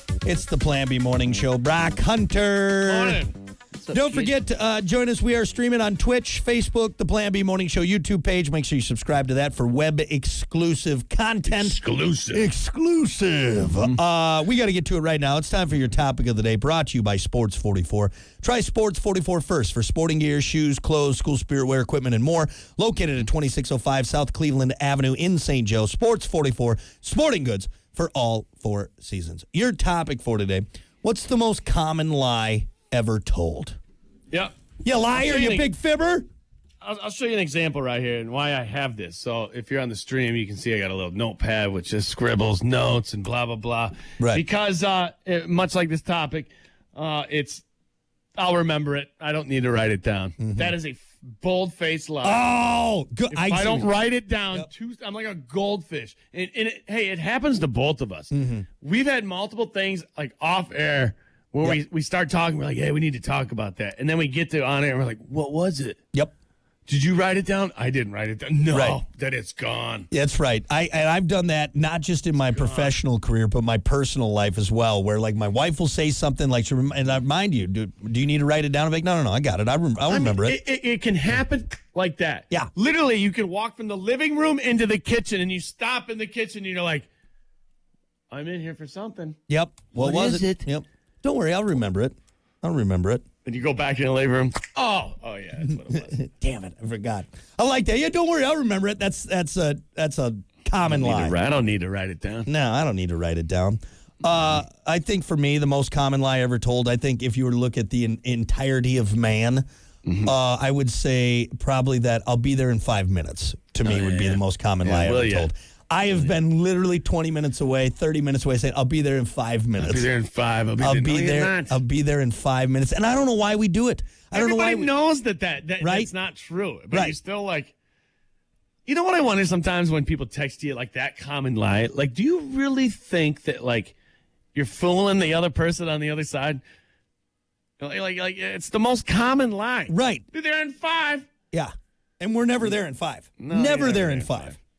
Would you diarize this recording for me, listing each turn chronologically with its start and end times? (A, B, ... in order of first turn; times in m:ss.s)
0:00.2-0:03.2 A
0:02.8-0:04.3 B
0:03.9-0:11.8 A
0:11.4-0:12.5 B
0:12.3-0:33.8 A
0:34.8-0:36.2 A
0:35.1-0:35.7 B
0:36.8-0:47.6 B
0:48.4-0:52.4 B
0:50.4-0:50.7 A
0:52.2-0:53.9 A
0:53.3-1:06.0 B
0:58.3-0:58.6 A
1:06.9-1:10.1 B
1:08.7-1:09.0 A
1:10.1-1:20.6 A
1:12.5-1:12.9 B
1:20.1-1:27.1 B
1:28.3-1:29.4 B
1:29.5-1:33.2 A
1:29.9-1:30.6 B
1:33.4-1:36.2 B
1:35.7-1:41.4 A
1:40.8-1:42.5 B
1:42.4-1:49.6 A
1:50.0-1:50.3 B
1:50.2-2:00.1 A
1:53.8-1:55.5 B
1:59.8-2:01.8 B
2:00.8-2:04.9 A
2:04.3-2:07.7 B
2:05.8-2:06.1 A
2:08.8-2:13.9 B
2:14.5-2:16.6 B
2:17.8-2:21.3 B
2:19.9-2:20.2 A
2:21.5-2:24.6 A
2:23.4-2:24.6 B